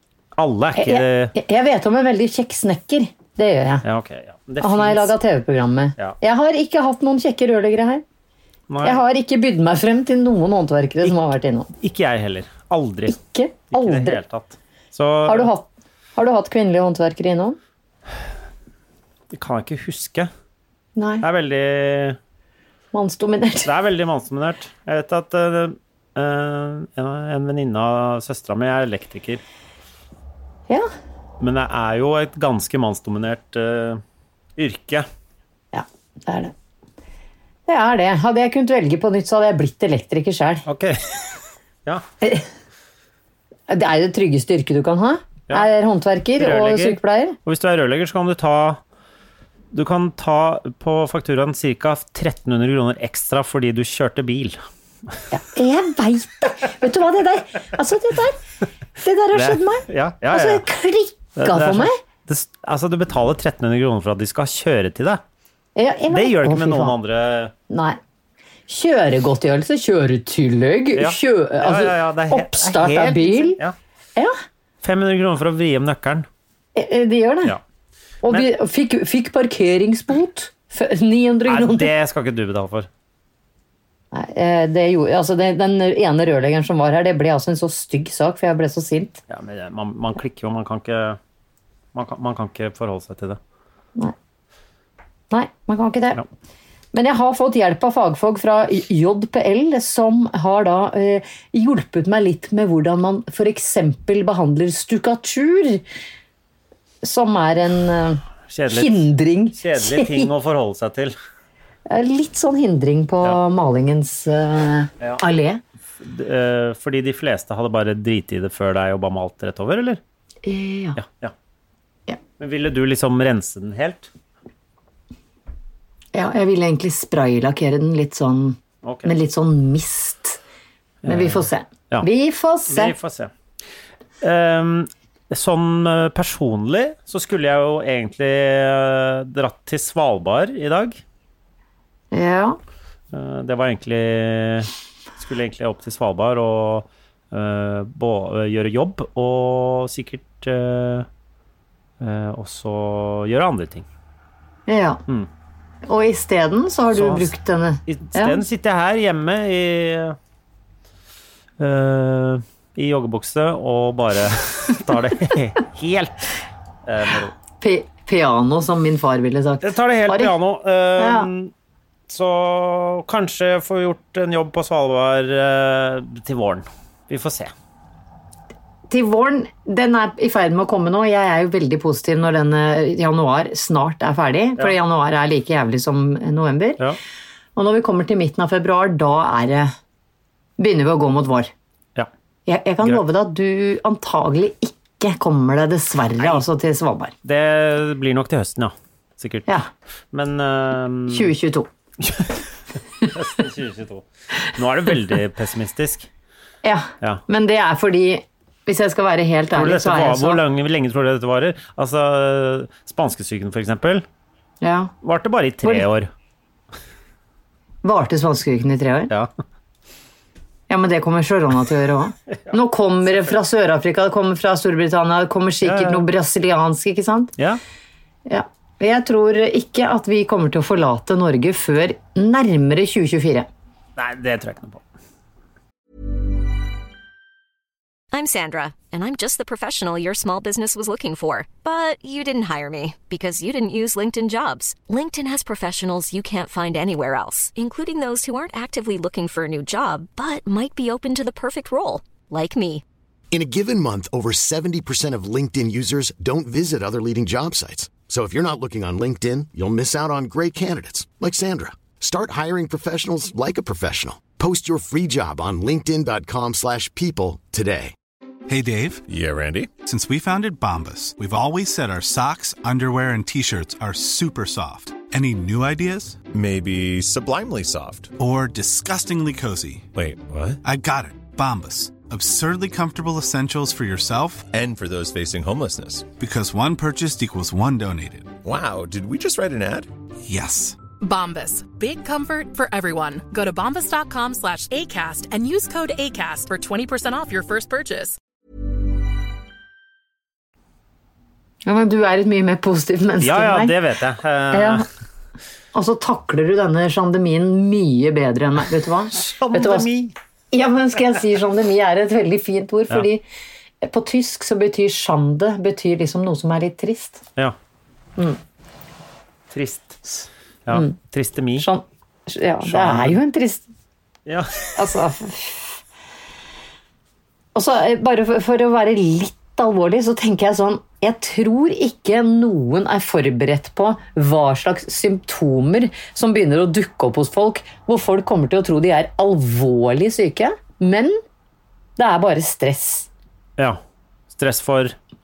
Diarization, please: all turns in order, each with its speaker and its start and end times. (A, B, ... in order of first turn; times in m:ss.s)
0:00.4-0:01.3 A
0:00.8-0:03.8 B
0:03.8-0:05.1 A
0:04.6-0:08.0 B
0:08.7-0:09.0 A
0:08.8-0:11.7 B
0:11.8-0:13.2 A
0:13.1-0:14.2 B
0:13.7-0:15.5 A
0:15.3-0:17.6 B
0:19.3-0:20.3 A
0:21.0-0:21.2 B
0:21.2-0:22.2 A
0:22.9-0:23.7 B
0:23.6-0:29.4 A
0:31.4-0:34.0 A
0:34.6-0:35.0 A
0:35.7-0:36.5 B
0:37.7-0:40.6 B
0:40.6-0:41.2 A
0:43.7-0:47.4 B
0:46.4-0:48.8 A
0:49.7-0:54.6 A
0:55.3-0:58.4 B
0:59.0-1:01.9 B
0:59.3-1:00.6 A
1:01.4-1:05.2 A
1:05.8-1:06.9 B
1:06.1-1:07.5 A
1:07.7-1:08.0 B
1:08.7-1:13.6 B
1:11.0-1:13.7 A
1:14.8-1:16.3 A
1:16.7-1:17.5 B
1:18.2-1:21.9 B
1:21.5-1:22.9 A
1:24.1-1:29.2 B
1:29.3-1:31.2 A
1:31.9-1:33.4 A
1:35.3-1:36.2 B
1:36.9-1:45.8 B
1:47.0-1:50.3 B
1:48.5-1:51.1 A
1:51.9-1:55.6 B
1:56.0-2:00.0 A
2:00.4-2:01.0 B
2:01.0-2:01.3 A
2:02.4-2:04.1 A
2:06.1-2:10.4 B
2:08.8-2:09.1 A
2:11.0-2:12.1 A
2:11.0-2:12.9 B
2:12.7-2:13.3 A
2:14.2-2:21.0 A
2:22.1-2:22.6 B
2:23.1-2:31.1 A
2:32.0-2:33.8 A
2:34.7-2:35.0 B
2:35.8-2:38.4 B
2:36.9-2:37.3 A
2:37.9-2:40.2 A
2:41.6-2:46.3 A
2:46.8-2:47.3 A
2:47.6-2:50.3 B
2:49.6-2:51.5 A
2:51.0-2:51.3 B
2:52.1-2:57.5 A
2:58.9-3:06.8 B
3:07.6-3:09.7 B
3:10.6-3:11.5 B
3:12.4-3:17.1 B
3:17.2-3:19.5 A
3:20.1-3:21.3 A
3:21.1-3:21.7 B
3:22.0-3:22.3 A
3:23.1-3:26.1 A
3:26.6-3:30.4 B
3:29.5-3:34.0 A
3:34.6-3:34.9 B
3:35.0-3:36.1 A
3:37.8-3:39.1 B
3:40.7-3:47.3 B
3:45.6-3:46.0 A
3:48.3-3:53.5 B
3:54.0-3:54.8 A
3:58.1-4:12.8 C
4:13.3-4:27.9 D
4:28.5-4:29.0 E
4:29.1-4:29.7 F
4:29.8-4:36.2 E
4:36.3-4:38.1 F
4:38.2-4:39.9 E
4:39.9-4:40.6 F
4:40.6-4:44.5 E
4:44.5-4:46.1 F
4:46.2-4:48.4 E
4:48.4-4:49.9 F
4:50.2-4:50.8 E
4:51.0-4:58.2 G
5:01.6-5:03.7 B
5:03.2-5:04.8 A
5:04.5-5:04.8 B
5:05.7-5:09.9 B
5:09.2-5:10.1 A
5:10.5-5:13.2 B
5:13.8-5:17.2 B
5:19.5-5:21.7 A
5:21.6-5:23.6 B
5:22.6-5:23.2 A
5:24.2-5:24.7 A
5:24.8-5:25.8 B
5:27.5-5:41.2 B
5:42.0-5:43.1 B
5:44.3-5:45.0 A